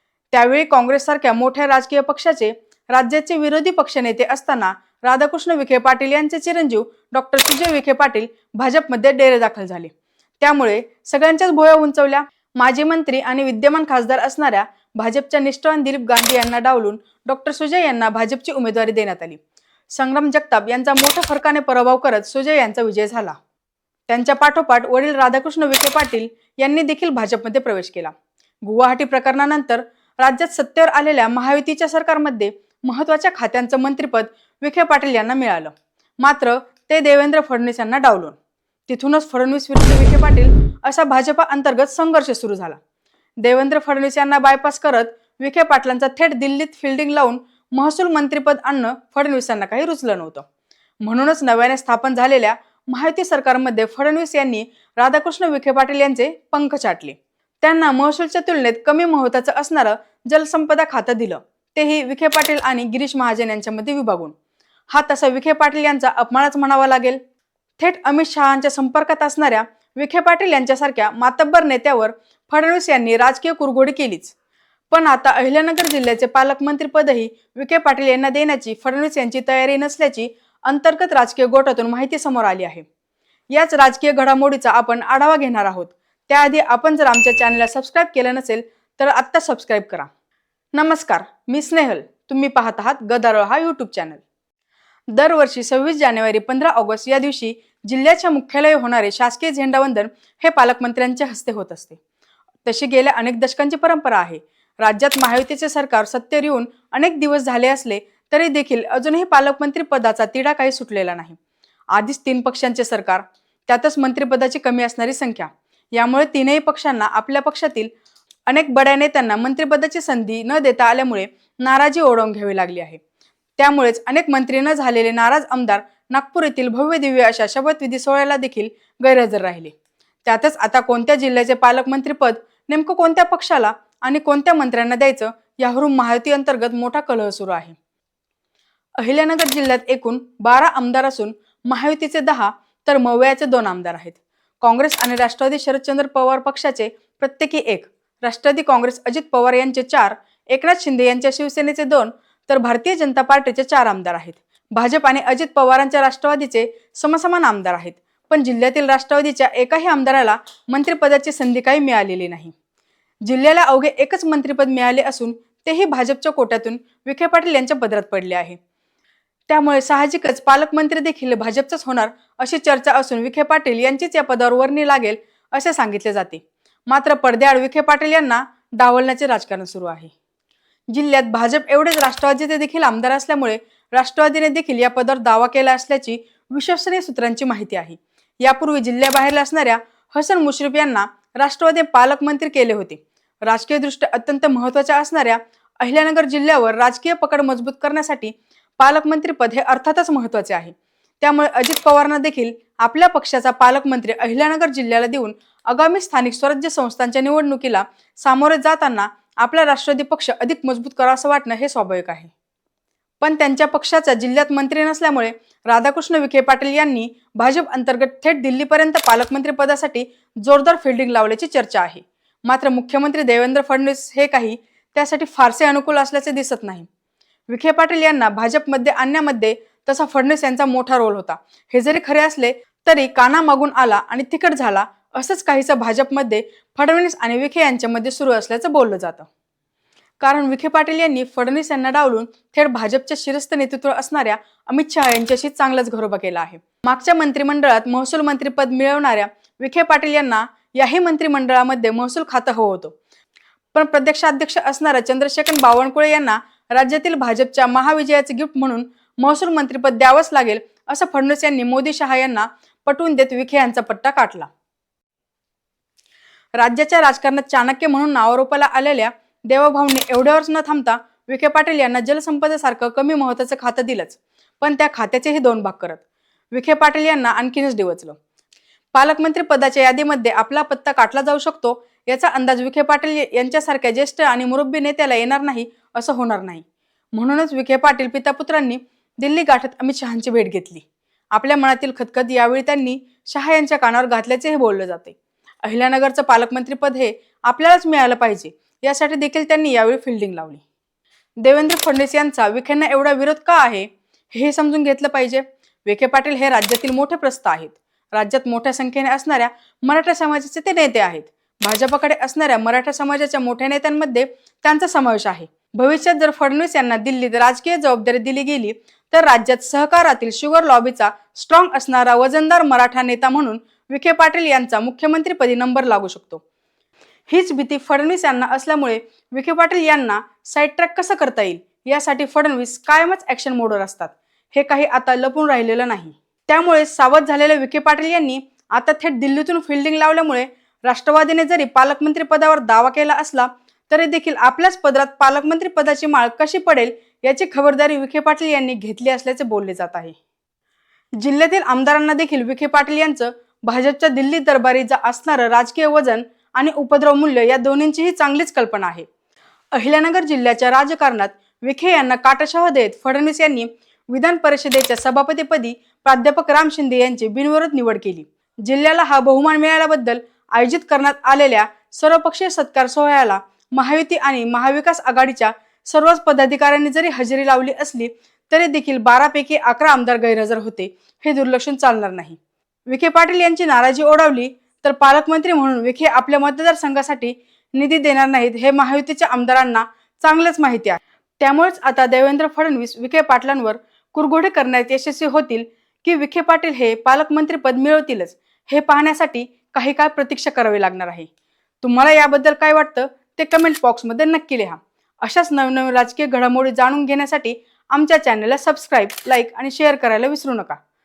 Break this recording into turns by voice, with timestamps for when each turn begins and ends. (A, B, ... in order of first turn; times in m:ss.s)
0:00.3-0:19.4 A
0:19.9-0:23.4 A
0:24.1-0:38.4 A
0:38.9-0:42.8 A
0:43.4-0:50.5 A
0:51.0-1:04.3 A
1:04.9-1:07.2 A
1:07.8-1:14.4 A
1:14.9-1:22.8 A
1:23.5-1:30.1 A
1:30.7-1:34.2 A
1:35.1-1:42.0 A
1:42.6-1:51.4 A
1:51.9-1:57.9 A
1:58.5-2:03.0 A
2:03.6-2:09.7 A
2:10.2-2:17.8 A
2:19.0-2:42.5 A
2:43.2-2:48.6 A
2:49.5-3:00.1 A
3:00.9-3:32.3 A
3:33.2-3:46.9 A
3:47.5-3:59.3 A
4:00.2-4:13.0 A
4:13.7-4:24.5 A
4:26.6-4:38.2 A
4:38.9-5:00.6 A
5:01.4-5:26.4 A
5:27.3-5:50.2 A
5:51.2-5:59.1 A
5:59.7-6:41.3 A
6:41.8-6:50.8 A